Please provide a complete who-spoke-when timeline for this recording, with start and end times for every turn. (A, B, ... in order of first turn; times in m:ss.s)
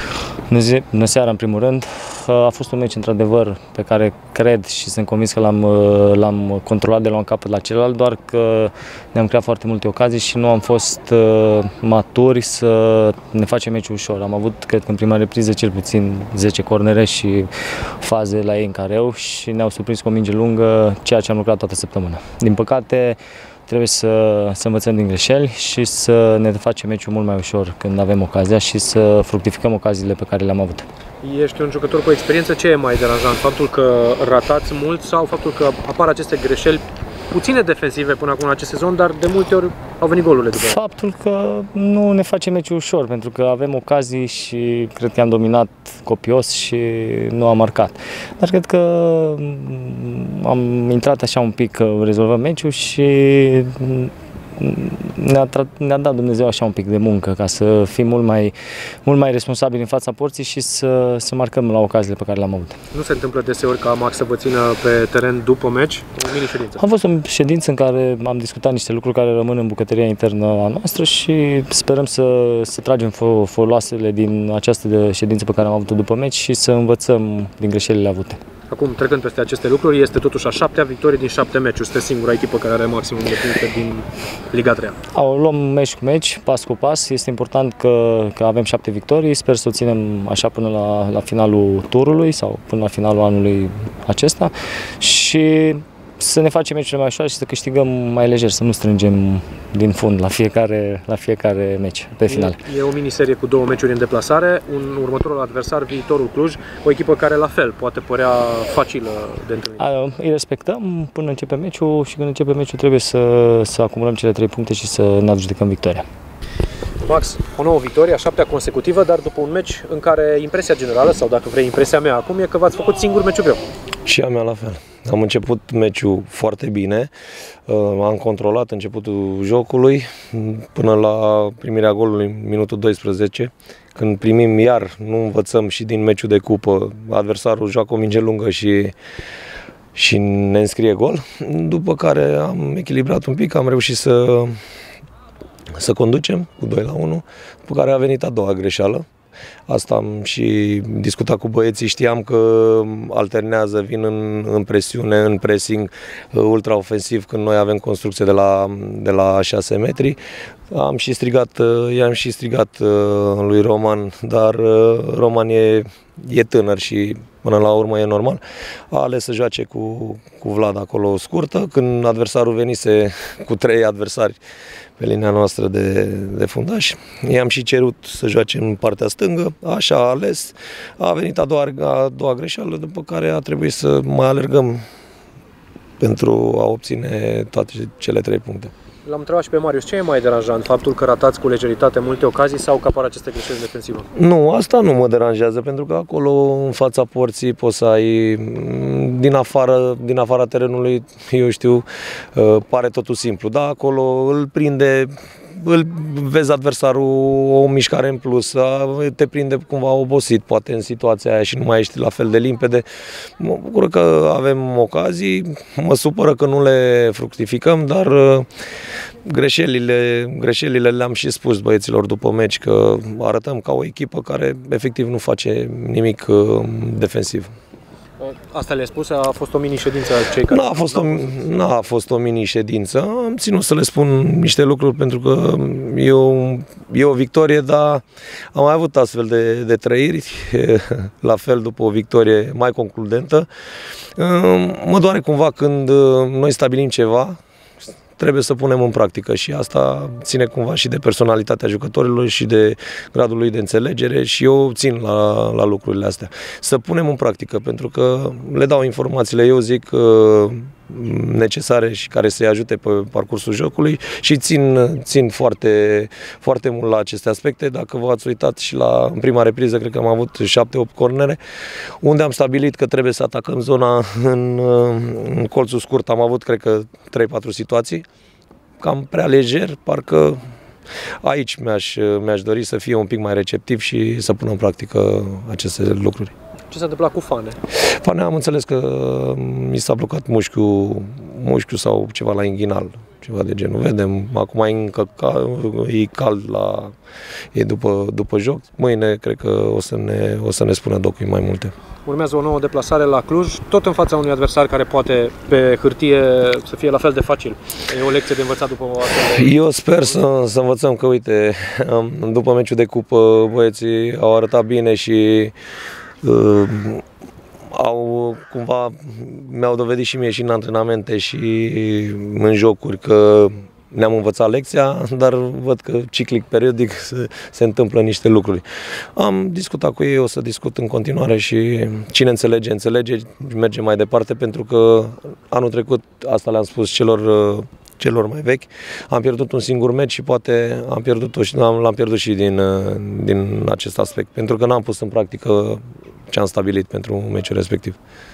0:00.5-0:30.8 A
0:31.2-0:40.8 B
0:40.6-0:58.5 A
0:59.0-1:02.8 A
1:02.9-1:06.8 B
1:06.8-1:18.4 A
1:18.7-1:25.0 B
1:25.1-1:42.6 A
1:42.3-1:49.8 B
1:49.8-1:56.0 A
1:57.0-2:03.6 B
2:04.0-2:07.1 C
2:07.7-2:18.9 C
2:19.9-2:24.6 C
2:25.7-2:29.0 C
2:29.7-2:40.2 C
2:40.7-2:54.4 C
2:55.0-3:04.8 C
3:06.0-3:08.7 C
3:09.0-3:14.1 B
3:14.1-3:32.8 C
3:33.4-3:38.5 C
3:39.2-3:47.5 C
3:48.2-3:51.4 B
3:50.5-3:58.0 C
3:58.5-4:03.5 C
4:04.2-4:07.4 C
4:08.2-4:31.4 C
4:32.0-4:38.0 C
4:38.8-4:40.4 C
4:41.2-4:46.3 C
4:46.7-4:47.6 B
4:47.9-4:56.9 C
4:57.5-5:01.7 C
5:02.1-5:09.5 B
5:09.3-5:15.5 C
5:16.2-5:17.0 C
5:17.7-5:28.6 C
5:29.2-5:48.0 C